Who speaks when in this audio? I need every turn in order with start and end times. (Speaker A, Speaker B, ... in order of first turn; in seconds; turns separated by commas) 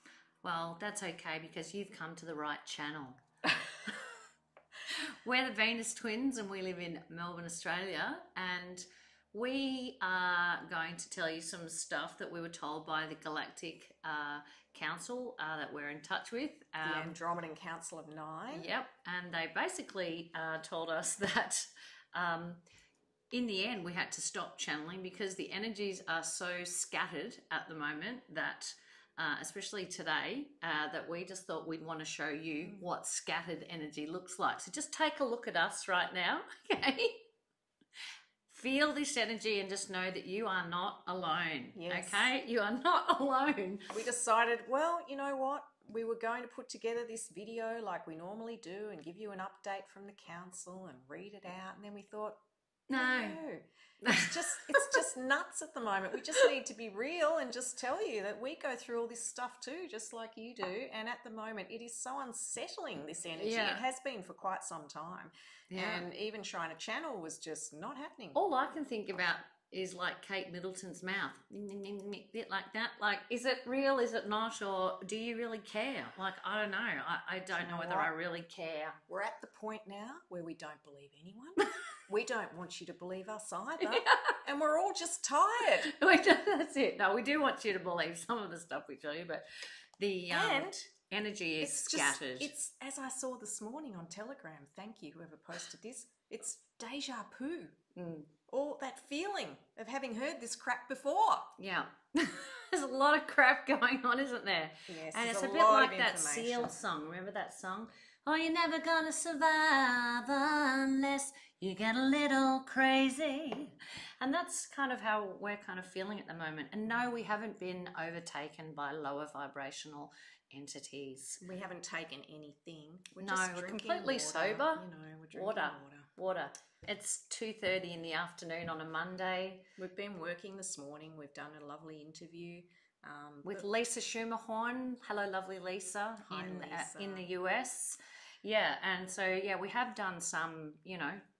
Speaker A: 0.4-3.2, Speaker A: 4.9-17.1, Speaker B: 16.8-18.7, Speaker A: 18.5-22.6, Speaker A: 23.3-37.2, Speaker A: 38.5-43.8, Speaker B: 41.7-42.3, Speaker B: 43.9-52.4, Speaker A: 52.9-53.4, Speaker B: 52.9-68.4, Speaker A: 54.0-55.0, Speaker A: 63.3-63.8, Speaker A: 65.7-66.1, Speaker A: 68.3-79.0, Speaker B: 77.5-78.1, Speaker B: 79.1-85.9, Speaker A: 83.8-84.3, Speaker A: 85.8-89.5, Speaker A: 90.0-92.5, Speaker B: 90.3-90.9, Speaker B: 91.6-97.7, Speaker A: 98.0-98.3, Speaker B: 98.5-101.5, Speaker A: 101.6-121.4, Speaker B: 104.9-106.8, Speaker B: 121.4-126.1, Speaker A: 123.2-129.7, Speaker B: 129.8-133.7, Speaker A: 133.4-141.2, Speaker B: 136.3-137.3